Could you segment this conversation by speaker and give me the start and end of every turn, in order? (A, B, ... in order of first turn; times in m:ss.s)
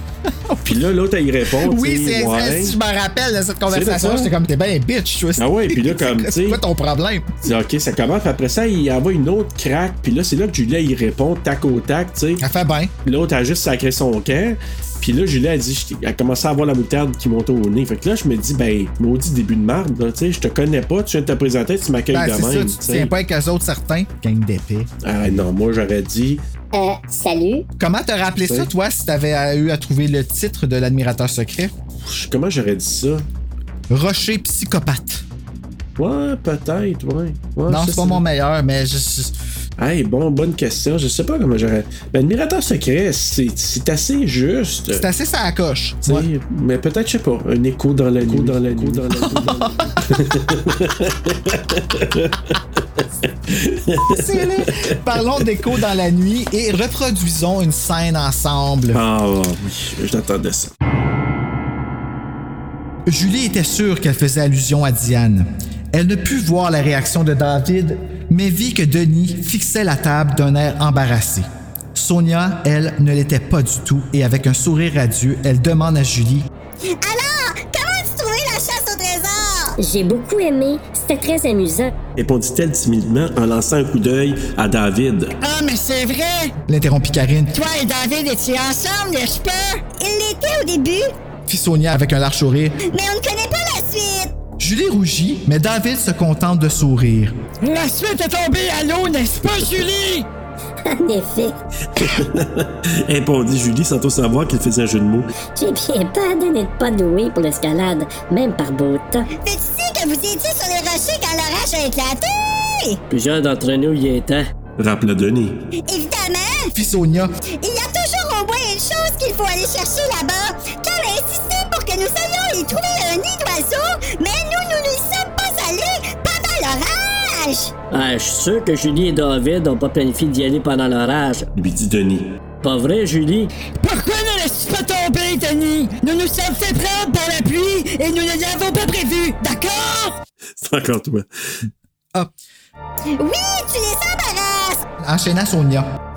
0:00.6-0:02.8 A
0:01.6-0:07.3 B
0:03.7-0:04.3 A
0:05.4-0:06.6 A
0:07.4-0:12.4 A
0:12.4-0:12.9 B
0:13.0-0:23.1 A
0:22.1-0:25.4 B
0:25.0-0:26.4 A
0:26.7-0:27.6 C
0:27.8-0:31.7 B
0:28.4-0:28.7 A
0:32.0-0:33.2 A
0:33.9-0:35.2 B
0:36.0-0:38.2 A
0:37.7-0:39.3 B
0:39.8-0:45.1 A
0:44.9-0:46.3 B
0:46.0-0:55.5 A
0:48.2-0:49.7 D
0:49.2-0:50.1 B
0:54.0-0:59.0 B
0:58.9-1:00.7 A
1:03.1-1:16.5 B
1:17.0-1:19.8 E
1:19.8-1:21.9 C
1:22.2-1:25.4 A
1:26.6-1:27.6 B
1:29.8-1:31.1 E
1:31.5-1:32.8 B
1:32.9-1:34.3 E
1:34.6-1:37.4 B
1:38.5-1:40.1 F
1:40.8-1:41.6 C
1:41.9-1:45.3 A
1:45.6-1:49.3 C
1:49.4-1:53.0 E
1:53.1-1:54.5 D
1:54.8-1:55.7 A
1:55.8-1:56.7 E
1:56.7-1:57.3 B
1:57.5-2:07.7 E
2:07.9-2:11.5 D
2:11.5-2:12.4 A
2:12.6-2:13.5 D
2:14.2-2:15.7 F
2:16.6-2:17.5 F
2:18.4-2:19.1 F
2:20.6-2:21.6 A
2:23.1-2:24.8 E
2:25.0-2:25.9 B